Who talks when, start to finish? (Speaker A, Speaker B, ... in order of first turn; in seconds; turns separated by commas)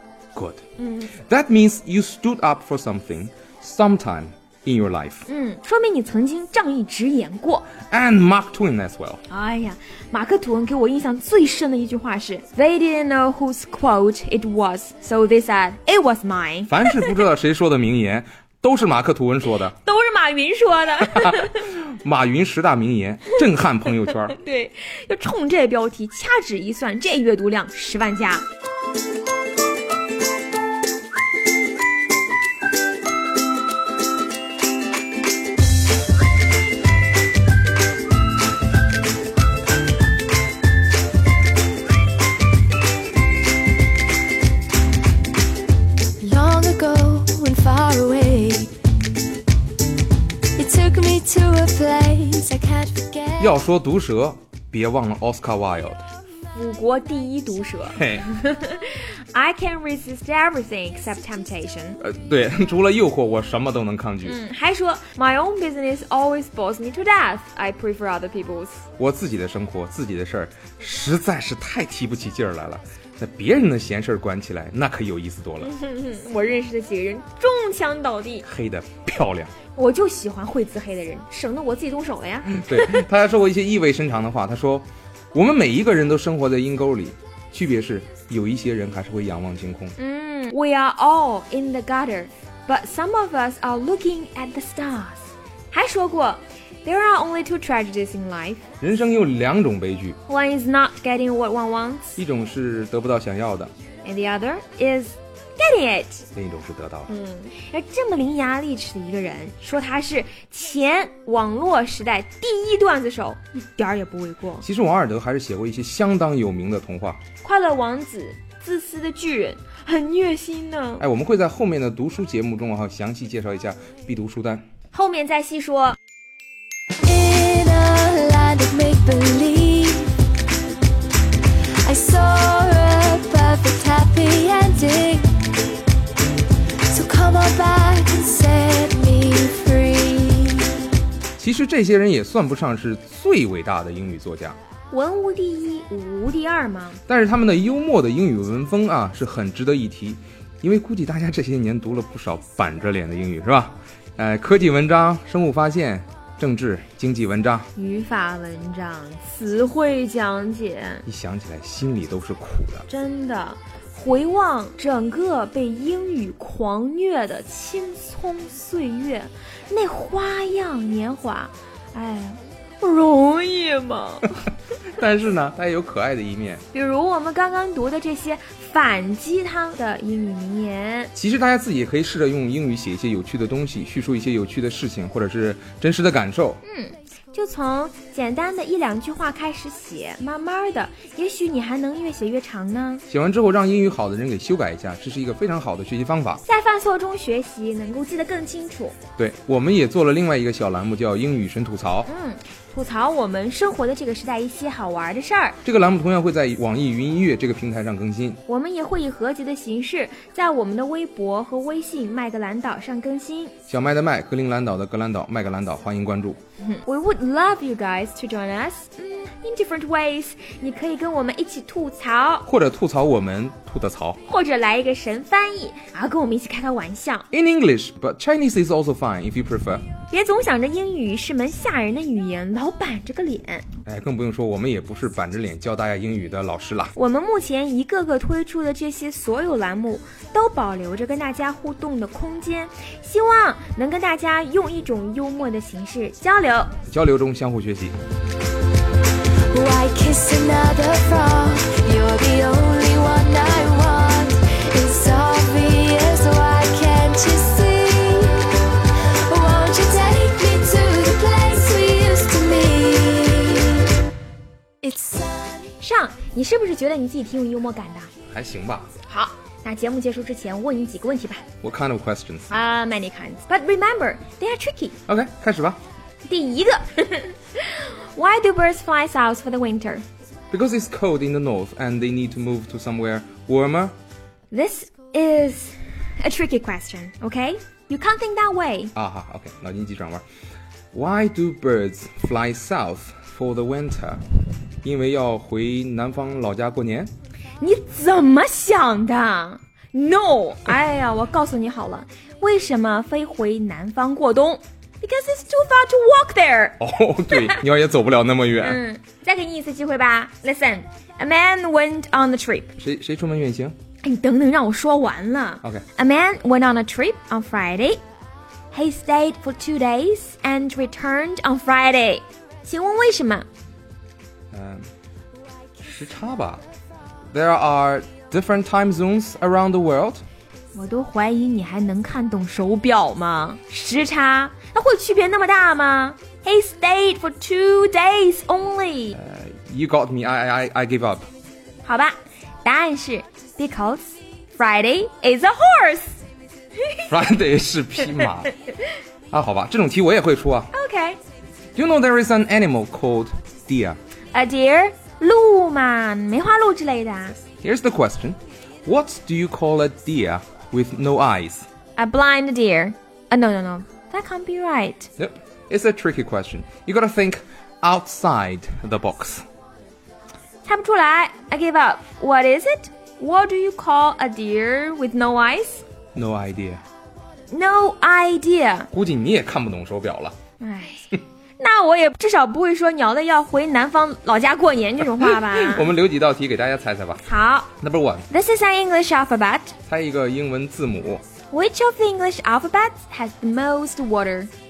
Speaker A: 0.3-5.3, Speaker B: 0.8-1.1, Speaker B: 5.3-7.7, Speaker A: 7.8-9.2, Speaker B: 9.3-17.2, Speaker A: 16.7-19.7, Speaker B: 19.8-21.7, Speaker A: 21.0-24.4, Speaker B: 24.3-28.4, Speaker C: 46.2-48.7, Speaker C: 50.6-53.5, Speaker A: 53.4-56.0, Speaker B: 56.5-62.0, Speaker A: 58.0-58.2, Speaker A: 62.0-64.4, Speaker B: 64.2-68.9, Speaker A: 69.0-75.7, Speaker B: 75.6-78.5, Speaker A: 78.4-79.5, Speaker B: 79.8-83.0, Speaker A: 82.5-90.0, Speaker B: 90.0-98.7, Speaker A: 98.8-100.2, Speaker B: 100.3-102.2, Speaker A: 102.2-103.7, Speaker B: 104.0-106.3, Speaker A: 106.3-107.1, Speaker B: 107.1-114.6, Speaker A: 114.6-117.2, Speaker B: 117.4-121.0, Speaker A: 121.0-124.6, Speaker B: 124.9-126.0, Speaker C: 127.0-130.2, Speaker C: 131.8-135.5, Speaker C: 136.9-140.8, Speaker A: 141.4-144.6, Speaker B: 144.9-147.0, Speaker A: 147.1-157.7, Speaker B: 157.8-161.1, Speaker A: 161.1-162.9, Speaker B: 162.9-174.4, Speaker A: 174.9-176.7, Speaker B: 176.7-181.1, Speaker A: 181.2-186.6, Speaker B: 186.6-193.0, Speaker A: 193.1-196.4, Speaker B: 196.5-199.0, Speaker A: 199.2-202.1, Speaker B: 202.1-205.6, Speaker A: 205.7-208.4, Speaker B: 208.5-213.6, Speaker A: 213.7-216.4, Speaker B: 216.6-222.5, Speaker A: 222.5-224.2, Speaker B: 224.3-227.3, Speaker A: 227.3-229.8, Speaker B: 230.1-233.7, Speaker A: 233.9-236.9, Speaker B: 237.0-246.7, Speaker A: 246.9-248.0, Speaker C: 249.5-263.9, Speaker C: 264.8-265.7, Speaker B: 265.8-268.1, Speaker A: 268.3-268.9, Speaker B: 269.1-271.4, Speaker A: 271.6-272.5, Speaker B: 272.5-275.0, Speaker A: 275.1-275.8, Speaker B: 276.2-280.1, Speaker A: 280.5-284.0, Speaker B: 284.5-288.9, Speaker A: 288.9-290.2, Speaker A: 290.9-294.2, Speaker A: 294.8-297.1, Speaker B: 297.6-307.6, Speaker A: 306.8-308.8, Speaker B: 308.6-312.8, Speaker A: 312.8-313.8, Speaker B: 314.0-318.0, Speaker B: 318.7-323.5, Speaker A: 324.5-324.9, Speaker A: 325.8-326.6, Speaker A: 327.3-330.2, Speaker B: 330.8-339.2, Speaker A: 339.1-341.3, Speaker B: 341.8-346.2, Speaker B: 346.8-347.1, Speaker A: 347.1-348.5, Speaker A: 349.3-350.7, Speaker B: 350.7-351.2, Speaker A: 351.8-354.0, Speaker B: 354.3-357.4, Speaker A: 357.6-361.7, Speaker B: 362.0-365.1, Speaker A: 365.2-369.4, Speaker B: 370.6-375.8, Speaker A: 376.1-376.8, Speaker B: 377.5-378.9, Speaker A: 378.9-380.4, Speaker B: 380.6-385.9, Speaker A: 385.1-387.3, Speaker B: 387.3-387.7, Speaker A: 387.8-388.3, Speaker B: 388.3-389.8, Speaker A: 389.9-391.2, Speaker B: 391.5-394.5